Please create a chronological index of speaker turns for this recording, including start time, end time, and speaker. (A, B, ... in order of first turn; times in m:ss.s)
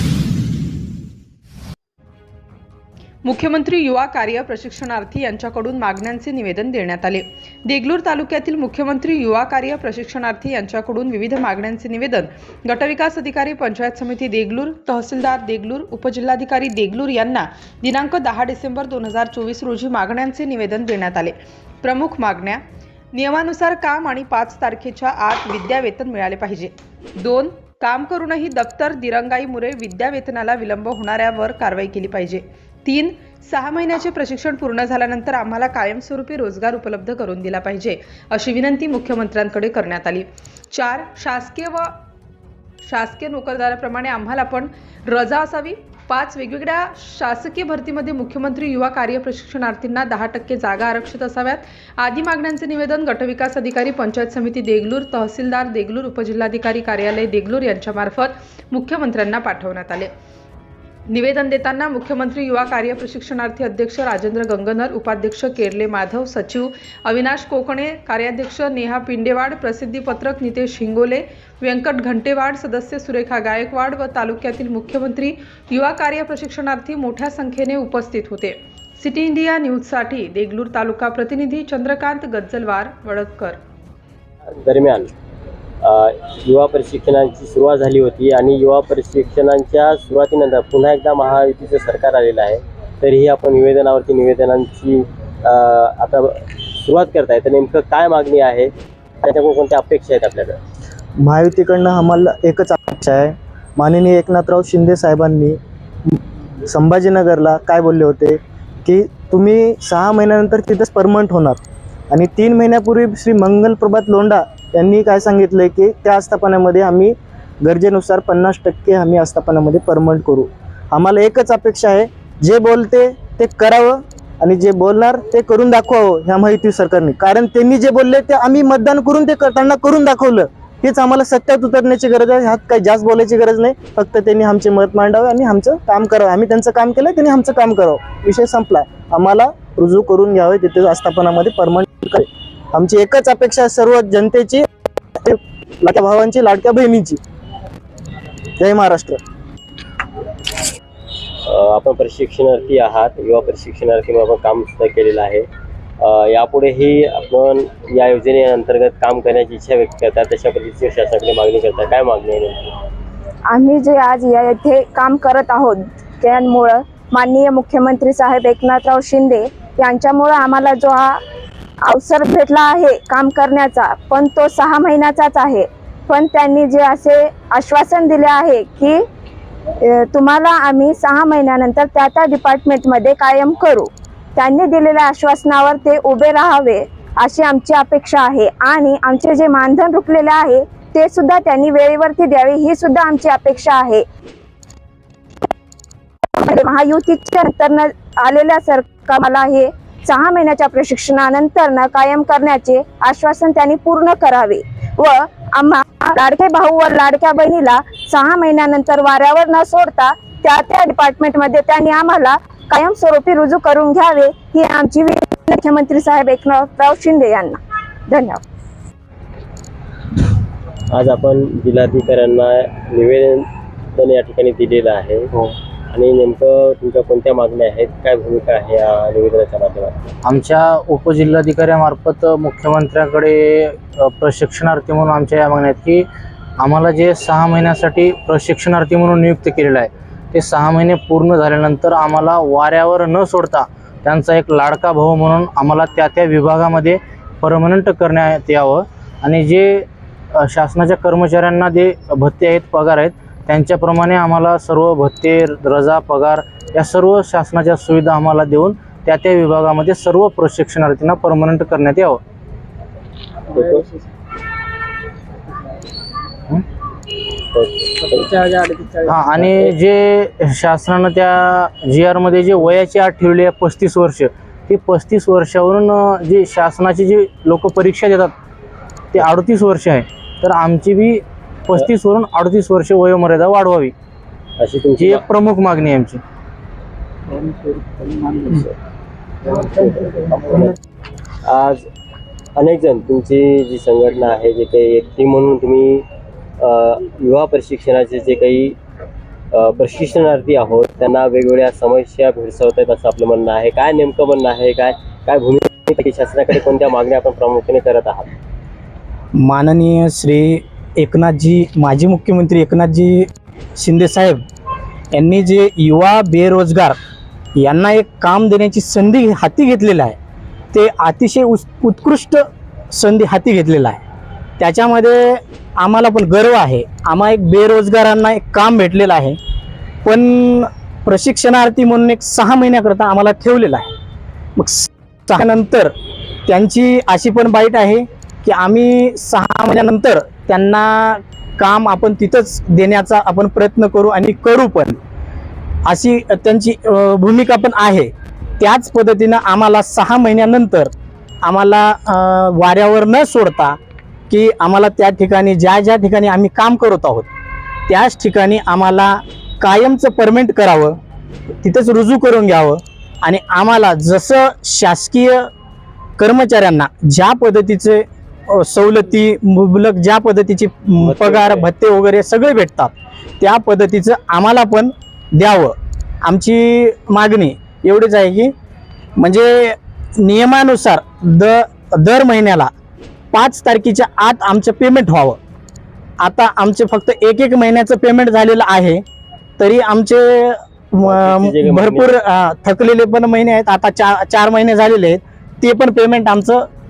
0:03.2-0:22.6 A
0:23.1-0:41.9 A
0:42.8-1:00.1 A
1:01.1-1:23.6 A
1:24.6-1:25.1 B
1:25.8-1:38.7 B
1:39.2-1:40.6 B
1:41.2-2:24.6 C
2:25.2-2:27.2 C
2:28.6-2:29.2 C
2:31.4-2:35.5 B
2:36.0-2:42.8 B
2:43.5-2:51.2 D
2:51.8-2:59.0 D
2:59.8-3:14.0 D
3:16.3-3:38.4 D
3:40.9-3:45.3 B
3:45.9-3:50.1 B
3:50.2-3:56.0 E
3:56.6-4:09.8 E
4:10.4-4:22.2 E
4:23.5-4:23.9 B
4:27.5-4:28.8 B
4:29.0-4:38.3 E
4:29.4-4:29.6 B
4:39.1-4:43.9 E
4:44.6-4:45.2 B
4:45.0-4:46.2 E
4:47.8-4:48.7 B
4:49.4-4:50.8 B
4:51.4-4:51.8 B
4:52.6-4:56.0 B
4:56.6-4:58.8 B
4:59.5-5:08.3 B
5:09.3-5:14.4 F
5:15.1-5:17.0 F
5:17.6-5:20.2 F
5:20.7-5:24.0 F
5:24.6-5:29.4 F
5:30.0-5:33.9 F
5:34.6-5:35.9 F
5:36.4-5:45.0 F
5:45.8-5:50.9 F
5:51.4-5:53.8 F
5:54.3-5:57.3 F
5:57.9-6:01.0 F
6:01.6-6:05.5 F
6:06.2-6:18.5 F
6:11.0-6:11.7 B
6:19.2-6:22.7 F
6:23.3-6:25.4 F
6:26.2-6:29.0 F
6:29.6-6:36.7 F
6:31.0-6:32.1 B